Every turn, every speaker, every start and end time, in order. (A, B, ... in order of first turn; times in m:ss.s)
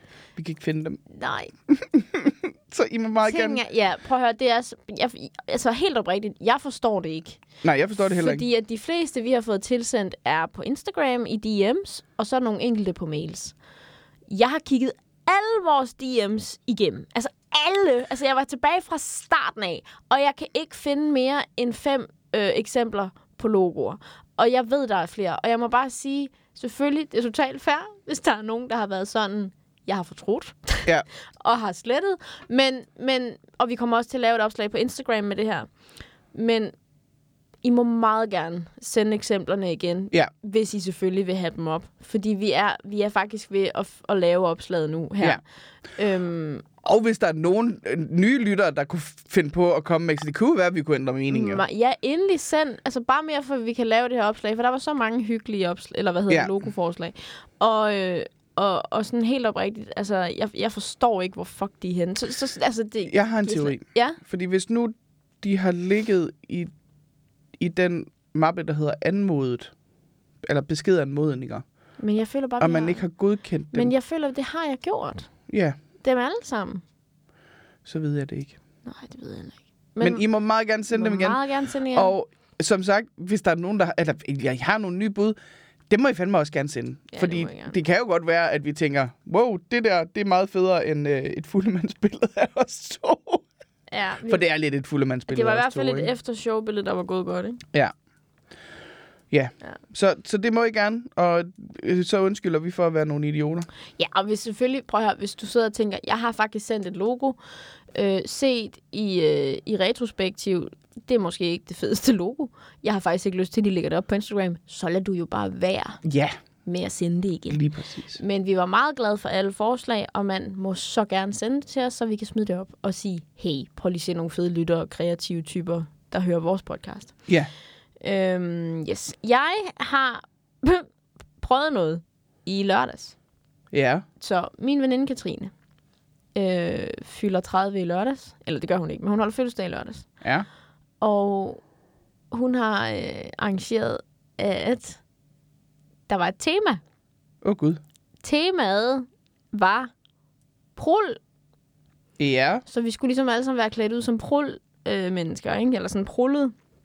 0:00.4-0:01.0 A
0:01.1-0:01.5 B
0:01.7-0:03.6 A
0:03.2-0:07.4 B
0:07.6-0:08.4 A
0:08.0-0:13.5 B
0:14.3-0:30.9 B
0:31.4-0:35.7 B
0:36.3-0:36.7 B
0:37.6-0:45.4 B
0:45.9-0:46.6 B
0:46.8-0:51.6 A
0:51.3-1:04.2 B
1:03.1-1:06.7 A
1:07.6-1:09.7 A
1:10.4-1:11.6 A
1:12.0-1:13.1 B
1:12.6-1:13.9 A
1:13.7-1:15.3 B
1:15.5-1:15.8 A
1:16.0-1:16.8 B
1:17.8-1:18.6 A
1:18.8-1:20.2 B
1:20.0-1:21.4 A
1:20.9-1:22.1 B
1:21.9-1:25.4 A
1:25.9-1:33.4 A
1:27.1-1:27.8 B
1:33.9-1:34.4 B
1:34.3-1:36.1 A
1:35.3-1:37.6 B
1:39.3-1:43.7 A
1:44.0-1:47.4 B
1:47.9-1:56.0 B
1:56.0-1:56.4 A
1:56.6-1:57.6 B
1:57.5-1:58.2 A
1:58.1-2:07.2 B
2:08.0-2:10.9 B
2:11.4-2:13.1 B
2:13.7-2:14.0 A
2:14.2-2:15.5 B
2:16.3-2:20.1 B
2:21.0-2:21.6 B
2:22.3-2:25.0 B
2:26.1-2:26.8 B
2:27.4-2:27.8 A
2:28.2-2:29.9 B
2:30.8-2:31.2 B
2:32.2-2:32.6 A
2:32.7-2:36.5 B